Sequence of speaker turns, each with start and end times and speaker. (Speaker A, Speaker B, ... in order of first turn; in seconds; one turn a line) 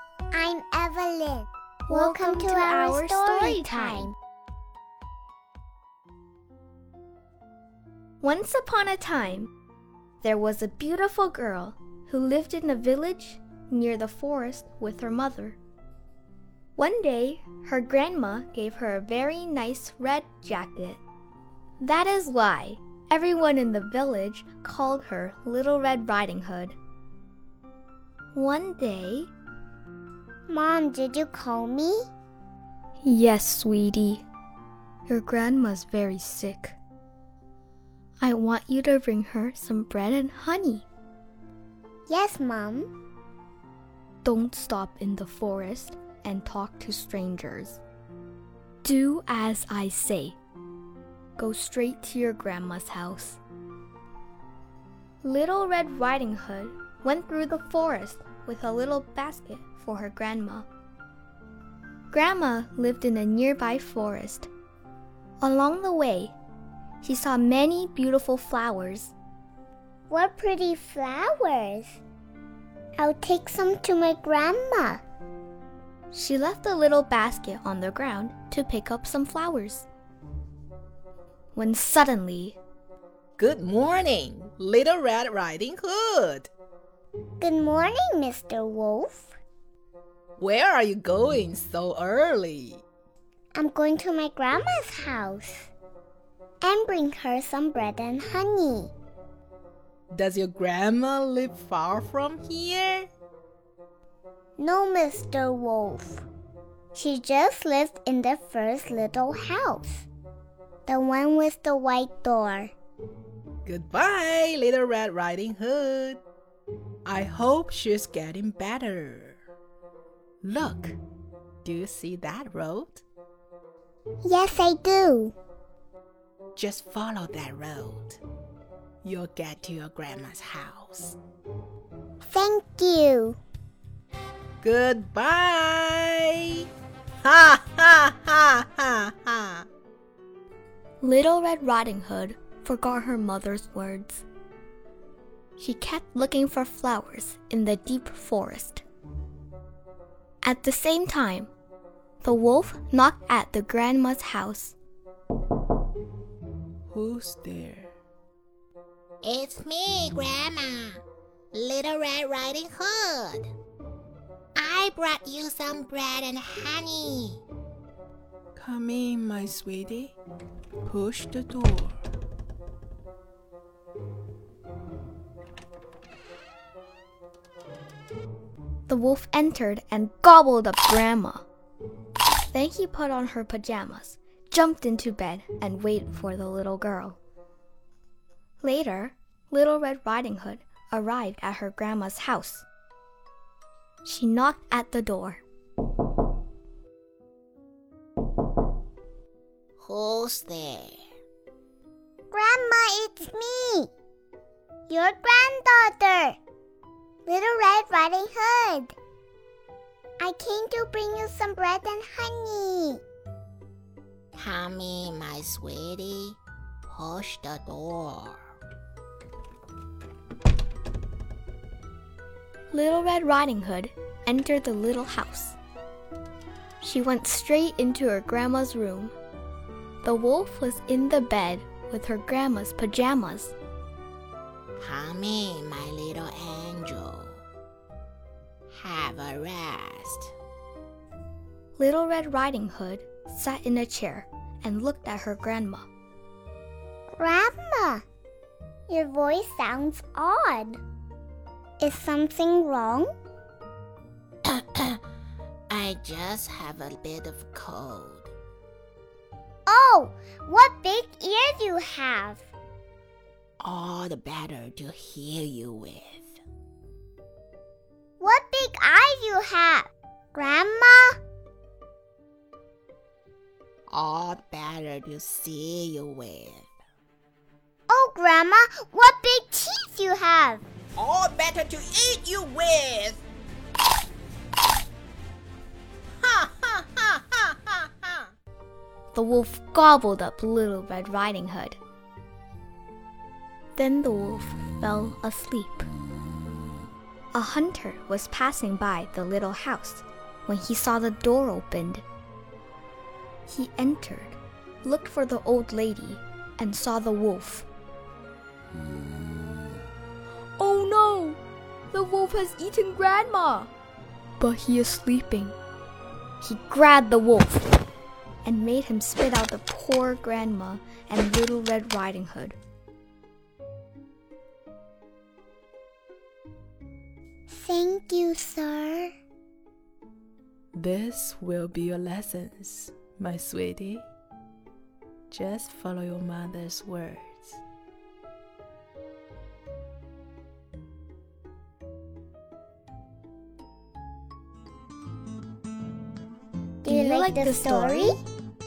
Speaker A: 0.3-4.1
Speaker B: 1.9-4.1
Speaker B: 8.2-9.5
Speaker B: 10.2-15.6
Speaker B: 16.8-21.0
Speaker B: 21.8-26.8
Speaker B: 28.3-29.3
Speaker A: 30.5-32.0
Speaker B: 33.0-34.2
Speaker B: 35.1-36.8
Speaker B: 38.2-40.9
Speaker A: 42.1-42.9
Speaker B: 44.2-47.8
Speaker B: 48.8-50.4
Speaker B: 51.4-53.4
Speaker B: 55.2-60.7
Speaker B: 62.1-64.5
Speaker B: 65.4-66.3
Speaker B: 67.0-69.1
Speaker A: 70.1-72.0
Speaker A: 73.0-75.0
Speaker B: 76.1-79.9
Speaker B: 81.5-82.6
Speaker C: 83.4-86.5
Speaker A: 87.4-89.3
Speaker C: 90.4-92.8
Speaker A: 93.5-95.7
Speaker A: 96.6-98.9
Speaker C: 100.1-103.1
Speaker A: 104.6-106.2
Speaker A: 106.9-110.1
Speaker A: 110.9-112.7
Speaker C: 113.7-116.2
Speaker C: 117.0-119.4
Speaker C: 120.4-121.0
Speaker C: 121.6-123.0
Speaker A: 124.2-125.3
Speaker C: 126.6-128.2
Speaker C: 129.0-131.2
Speaker A: 132.3-133.4
Speaker C: 134.6-136.6
Speaker C: 137.2-139.7
Speaker B: 141.0-144.2
Speaker B: 145.6-148.8
Speaker B: 150.4-151.5
Speaker B: 152.2-154.8
Speaker C: 156.9-157.9
Speaker D: 159.2-161.0
Speaker D: 161.5-163.5
Speaker D: 164.6-167.4
Speaker C: 168.6-170.2
Speaker C: 170.8-172.0
Speaker B: 178.9-181.4
Speaker B: 182.4-187.2
Speaker B: 188.6-192.7
Speaker B: 194.1-195.4
Speaker D: 199.8-201.0
Speaker A: 202.3-203.9
Speaker A: 204.9-206.4
Speaker A: 207.3-208.9
Speaker A: 210.2-213.0
Speaker D: 214.3-218.4
Speaker B: 222.7-225.6
Speaker B: 226.8-229.2
Speaker B: 230.0-233.5
Speaker D: 234.8-237.4
Speaker D: 238.7-240.3
Speaker B: 241.8-245.9
Speaker A: 247.2-248.0
Speaker A: 248.9-250.8
Speaker A: 251.8-253.1
Speaker D: 254.5-255.0
Speaker D: 255.7-258.3
Speaker A: 259.7-262.5
Speaker D: 263.6-266.4
Speaker A: 268.2-271.2
Speaker D: 273.9-276.7
Speaker A: 277.9-280.6
Speaker C: 281.0-283.2
Speaker C: 286.2-286.8
Speaker B: 289.1-291.8
Speaker B: 293.8-295.9
Speaker B: 297.3-302.0
Speaker B: 303.5-307.7
Speaker B: 310.6-311.4
Speaker B: 311.9-313.7
Speaker B: 314.4-315.6
Speaker B: 316.4-317.7
Speaker B: 318.4-322.6
Speaker A: 327.5-329.1
Speaker C: 330.7-334.1
Speaker C: 335.3-337.6
Speaker A: 346.8-348.2
Speaker B: 346.9-348.1